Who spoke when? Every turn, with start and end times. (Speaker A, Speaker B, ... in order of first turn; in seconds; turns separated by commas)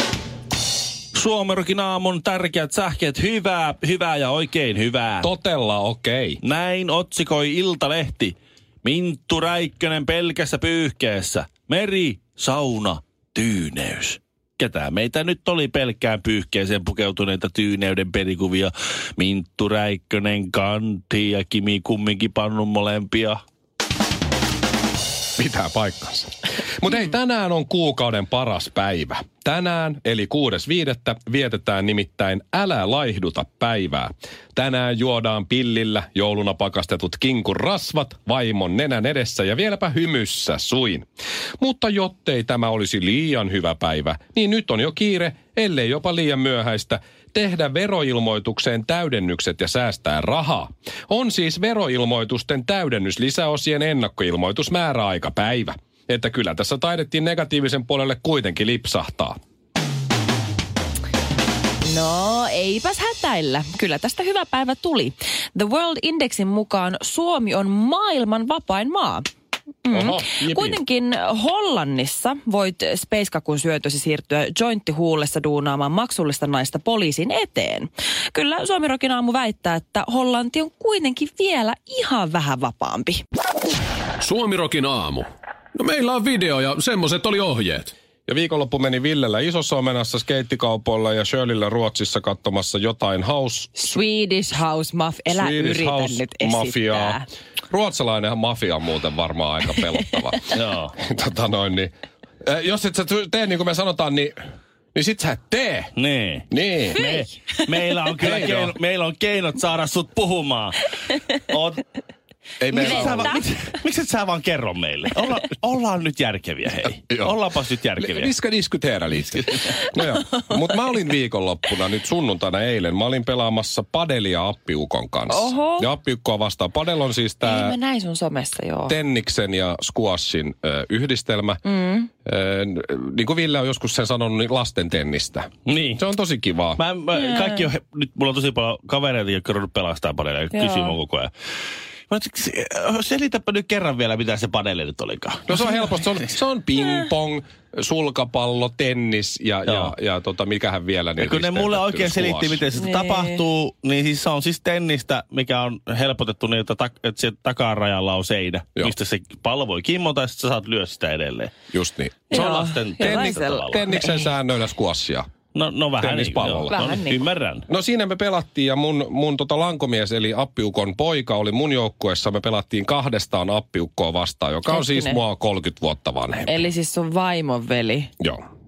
Speaker A: 1.1-5.3, Speaker B: 5.2-6.4, Speaker A: 6.4-23.4, Speaker B: 25.4-41.0, Speaker B: 41.6-59.4, Speaker C: 61.8-69.3, Speaker C: 69.8-83.2, Speaker B: 69.9-70.8, Speaker D: 84.2-87.9, Speaker B: 88.3-94.0, Speaker C: 93.8-97.3, Speaker B: 95.3-101.9, Speaker A: 100.5-100.9, Speaker B: 102.4-104.4, Speaker B: 105.0-105.9, Speaker A: 106.0-111.8, Speaker B: 106.5-107.0, Speaker C: 107.0-107.2, Speaker B: 108.2-108.8, Speaker B: 112.6-113.3, Speaker C: 112.7-113.4, Speaker A: 112.7-118.3, Speaker B: 117.1-117.4, Speaker B: 118.0-127.8, Speaker A: 119.1-119.8, Speaker C: 125.3-125.9, Speaker C: 127.4-129.0, Speaker B: 128.9-131.6, Speaker C: 131.6-132.1, Speaker B: 132.2-136.8, Speaker A: 135.7-136.0, Speaker A: 136.8-141.3, Speaker C: 137.2-137.7, Speaker C: 140.5-141.0, Speaker A: 142.1-145.6, Speaker B: 145.5-152.6, Speaker A: 149.7-149.9, Speaker A: 151.2-161.5, Speaker C: 152.7-153.4, Speaker B: 161.7-165.3, Speaker C: 162.3-164.3, Speaker A: 162.3-163.8, Speaker A: 165.6-167.7, Speaker B: 166.0-166.9, Speaker C: 166.7-167.2, Speaker B: 167.7-176.7, Speaker C: 174.7-175.2, Speaker C: 176.4-178.1